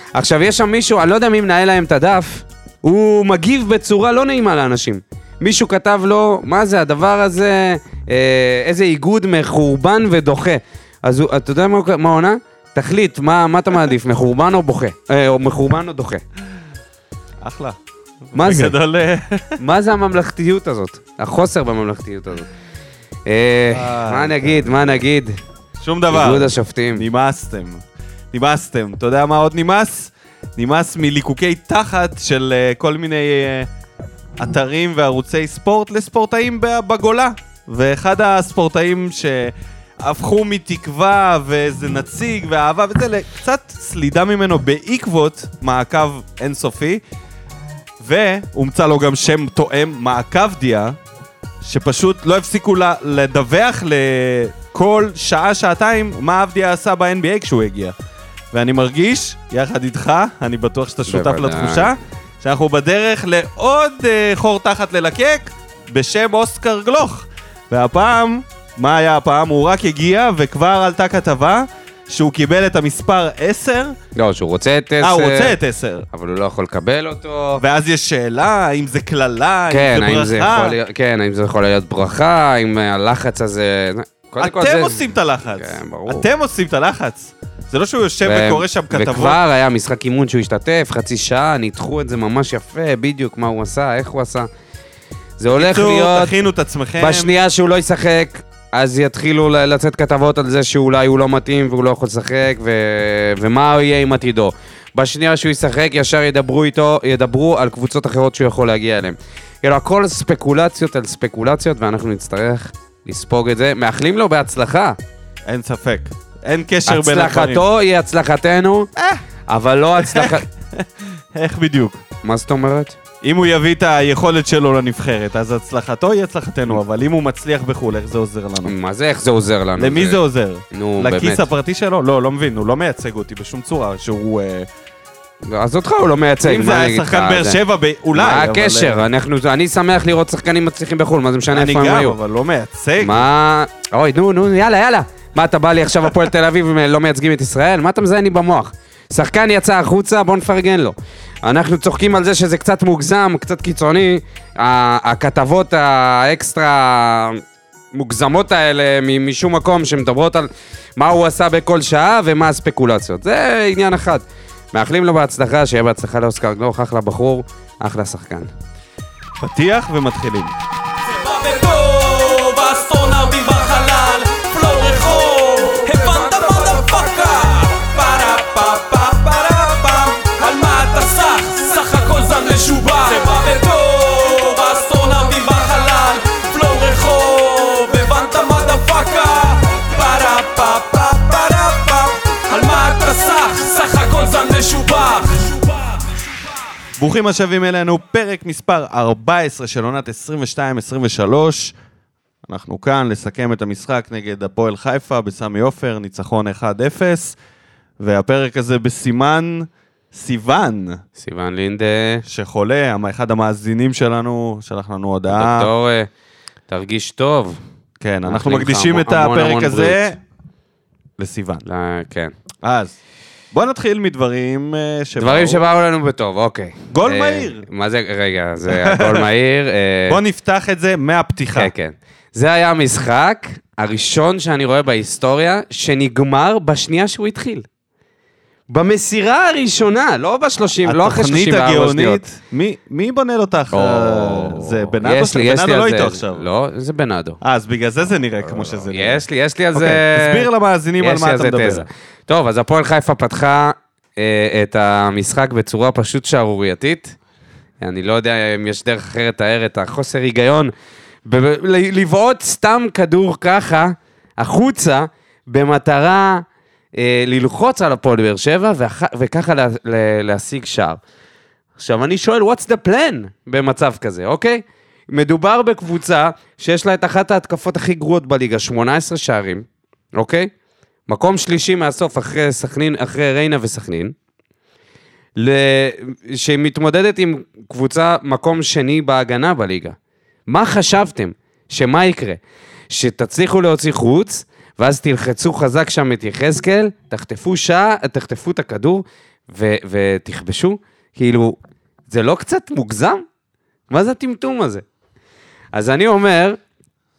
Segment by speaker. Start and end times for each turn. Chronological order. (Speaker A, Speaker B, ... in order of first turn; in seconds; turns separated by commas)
Speaker A: 0.1-16.2, Speaker B: 17.4-19.6, Speaker A: 18.4-18.8, Speaker A: 19.6-22.5, Speaker A: 23.3-25.4, Speaker B: 23.7-25.0, Speaker B: 25.8-33.7, Speaker A: 26.1-27.1, Speaker B: 34.4-47.0, Speaker B: 48.0-51.0, Speaker B: 51.6-58.0, Speaker B: 58.5-74.0, Speaker A: 61.1-61.9, Speaker A: 74.2-75.5, Speaker B: 75.0-76.1, Speaker A: 76.1-77.6, Speaker B: 77.6-80.8, Speaker A: 79.7-86.3, Speaker B: 84.4-89.4, Speaker A: 88.2-94.5, Speaker A: 95.4-96.4, Speaker B: 95.5-97.3, Speaker A: 97.0-115.0, Speaker B: 115.5-117.6, Speaker A: 116.9-118.9, Speaker B: 119.0-119.2, Speaker A: 119.5-120.5, Speaker B: 120.0-122.0, Speaker A: 122.2-123.0, Speaker B: 123.2-128.7, Speaker A: 128.6-131.5, Speaker B: 129.8-134.7, Speaker A: 135.4-137.6, Speaker B: 136.4-139.1, Speaker A: 138.1-142.2, Speaker B: 141.5-143.3, Speaker A: 143.0-157.4, Speaker A: 157.9-168.5, Speaker B: 169.4-170.5, Speaker C: 171.1-196.1, Speaker B: 197.0-201.8, Speaker B: 202.5-207.4, Speaker B: 208.0-211.0, Speaker A: 211.2-212.2, Speaker B: 212.3-215.7, Speaker A: 215.3-216.1, Speaker A: 216.7-217.6, Speaker B: 218.0-220.2, Speaker A: 218.2-220.1, Speaker B: 221.2-221.6, Speaker A: 221.7-222.3, Speaker B: 222.6-222.9, Speaker B: 223.5-225.7, Speaker A: 225.2-230.2, Speaker B: 226.9-227.7, Speaker B: 228.7-229.3, Speaker B: 230.1-231.7, Speaker A: 231.5-237.7, Speaker A: 238.7-242.2, Speaker B: 240.8-246.5, Speaker A: 243.7-247.4, Speaker B: 247.4-251.9, Speaker A: 248.5-250.5, Speaker A: 251.0-257.2, Speaker A: 257.8-260.7, Speaker A: 261.2-266.4, Speaker A: 266.9-271.0, Speaker A: 271.8-280.5, Speaker A: 281.1-284.1, Speaker A: 285.4-290.0, Speaker A: 290.5-301.6, Speaker A: 302.1-303.2, Speaker A: 303.9-304.9, Speaker A: 305.7-306.6